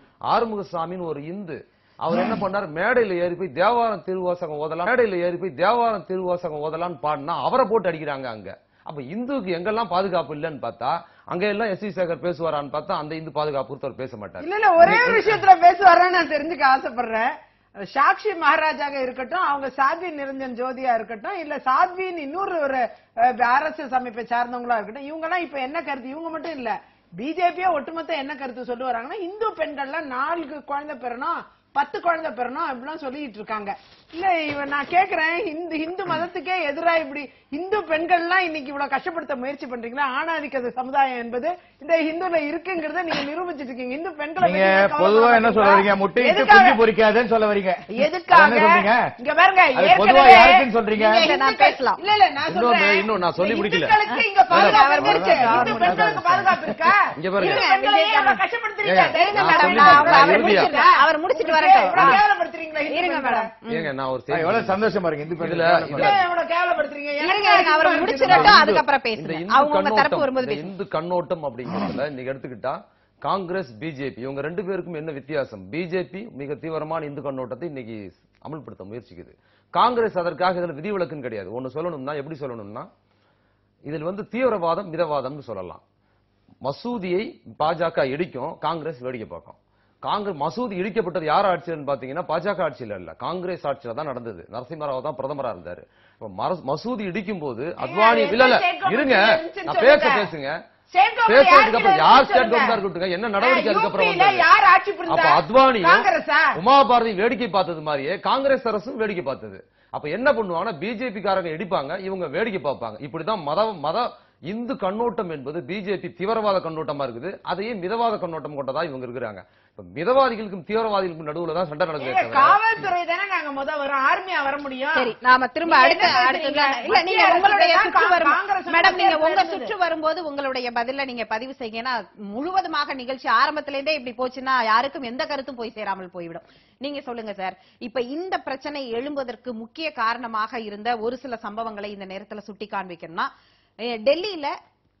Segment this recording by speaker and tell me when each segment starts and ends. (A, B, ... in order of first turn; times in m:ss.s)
0:00.3-0:15.4 A
0:14.4-0:46.8 B
0:44.4-0:49.1 C
0:47.9-1:03.5 B
0:49.7-0:51.3 C
0:50.9-0:52.0 D
0:52.4-0:54.0 A
0:54.1-0:56.3 D
0:54.5-0:54.8 A
0:54.5-0:56.8 C
0:57.2-0:57.6 A
0:57.4-0:58.4 D
0:58.8-1:00.7 A
0:59.1-1:02.2 D
1:02.9-1:03.9 D
1:03.7-1:04.8 A
1:04.3-1:06.2 C
1:05.4-1:06.2 A
1:05.9-1:08.6 B
1:07.2-1:10.7 D
1:08.2-1:22.9 A
1:23.9-1:25.8 A
1:26.6-1:40.5 A
1:37.8-1:40.3 B
1:40.9-1:42.8 B
1:41.2-1:44.5 A
1:43.4-1:46.6 B
1:45.1-2:02.8 A
2:02.0-2:05.1 B
2:04.9-2:23.3 D
2:05.6-2:09.7 B
2:24.0-2:24.5 D